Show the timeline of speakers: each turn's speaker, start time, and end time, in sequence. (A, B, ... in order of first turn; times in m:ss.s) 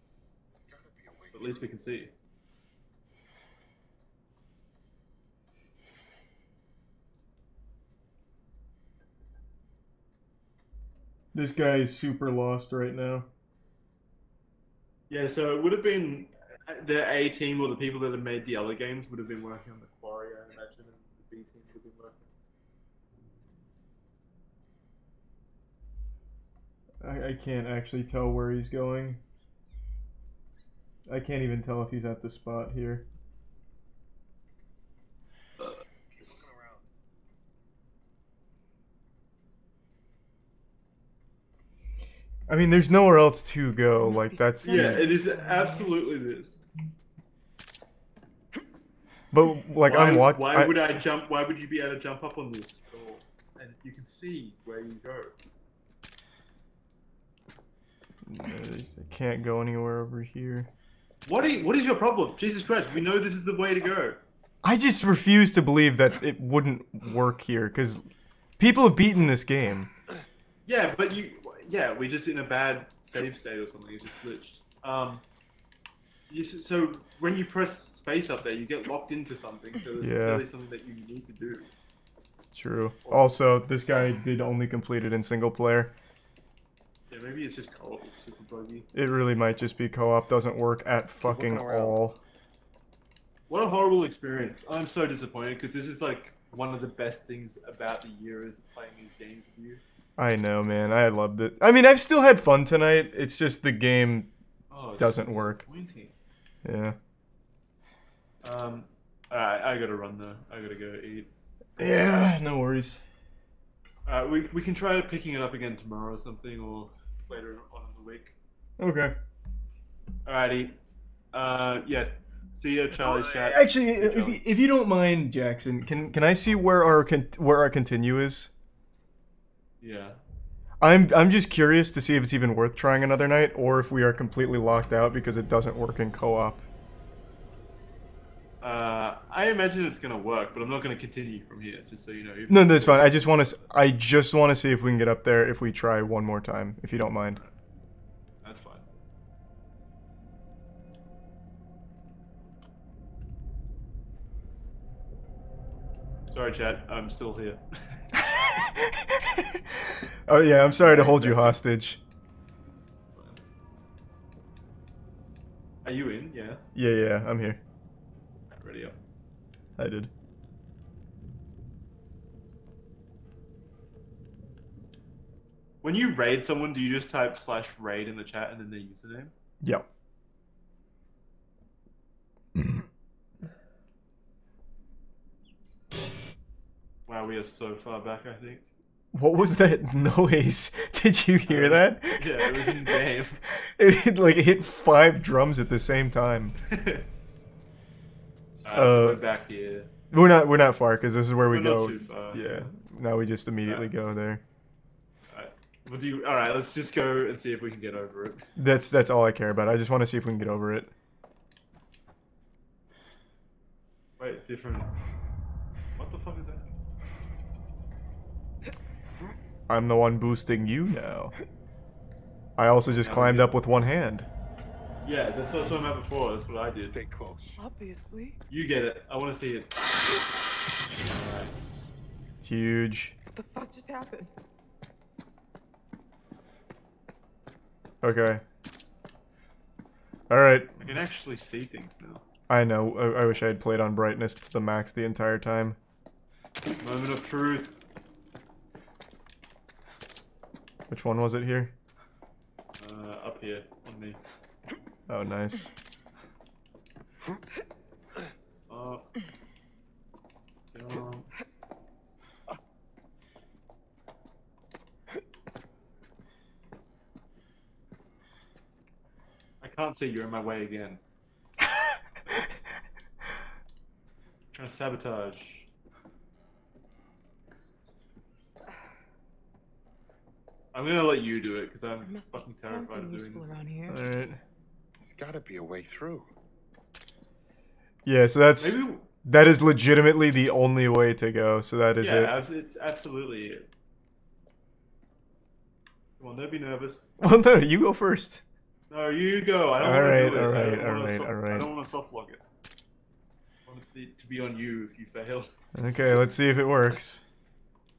0:00.5-0:01.7 A
0:01.3-0:02.1 B
0:11.3-0:13.3 C
0:15.1-0:22.2 B
0:27.0-0:29.2 C
0:31.1-0:33.0 C
0:36.1-0:36.9 A
0:42.5-0:45.1 C
0:44.0-0:45.9 D
0:44.6-0:46.6 B
0:49.3-0:51.0 C
0:49.8-0:55.4 B
0:58.3-1:00.7 C
1:01.3-1:04.2 B
1:04.6-1:08.1 C
1:08.6-1:09.9 C
1:10.7-1:15.2 B
1:16.3-1:21.7 B
1:20.0-1:20.4 C
1:22.5-1:25.9 C
1:23.1-1:23.3 B
1:27.1-1:28.9 B
1:28.9-1:32.2 C
1:31.2-1:32.0 A
1:33.5-1:39.8 B
1:40.2-1:44.3 C
1:44.7-1:46.1 B
1:45.0-1:45.7 C
1:46.6-1:47.0 C
1:48.4-1:51.3 B
1:51.8-1:53.0 C
1:54.1-1:58.4 B
1:58.8-1:59.1 C
2:00.3-2:00.8 B
2:01.3-2:04.4 B
2:03.0-2:08.5 C
2:09.8-2:10.2 B
2:10.8-2:16.6 C
2:18.6-2:23.6 B
2:22.5-2:27.4 C
2:28.4-2:28.8 B
2:36.3-2:38.0 B
2:38.2-2:42.0 C
2:40.8-2:41.6 B
2:43.1-2:43.4 B
2:45.8-2:46.6 B
2:46.8-2:47.6 C
2:48.5-2:49.0 B
2:49.8-2:50.1 C
2:55.8-2:59.3 B
3:07.1-3:08.7 B
3:09.1-3:13.0 C
3:11.5-3:13.4 B
3:13.6-3:16.6 C
3:16.7-3:17.1 B
3:18.6-3:19.9 B
3:18.8-3:19.2 C
3:20.1-3:24.4 C
3:21.5-3:22.7 B
3:23.6-3:23.9 B
3:25.3-3:28.5 B
3:28.6-3:30.9 C
3:34.2-3:34.9 B
3:36.0-3:36.8 B
3:39.7-3:41.4 C
3:42.6-3:44.3 C
3:43.0-3:43.6 B
3:45.0-3:47.0 B
3:46.8-3:47.6 A
3:47.6-3:48.4 D
3:48.5-3:49.8 B
3:51.1-3:51.9 B
3:52.4-3:53.2 C
3:53.4-3:54.3 D
3:58.0-3:58.4 C
4:00.3-4:01.0 C
4:00.8-4:02.2 B
4:02.5-4:05.8 C
4:06.8-4:07.8 B
4:10.9-4:11.7 C
4:12.8-4:14.2 B
4:15.1-4:15.7 C
4:18.7-4:19.0 B
4:20.7-4:21.3 B
4:29.6-4:31.0 B
4:34.5-4:35.7 B
4:40.7-4:43.6 B
4:42.0-4:44.0 D
4:43.9-4:44.4 C
4:45.0-4:46.3 A
4:48.0-4:52.3 C
4:48.6-4:49.1 B
4:52.0-4:53.7 B
4:56.2-4:57.1 B
4:57.2-4:58.4 C
4:58.9-5:02.4 B
4:59.8-5:01.7 C
5:03.7-5:05.6 B
5:05.8-5:07.2 C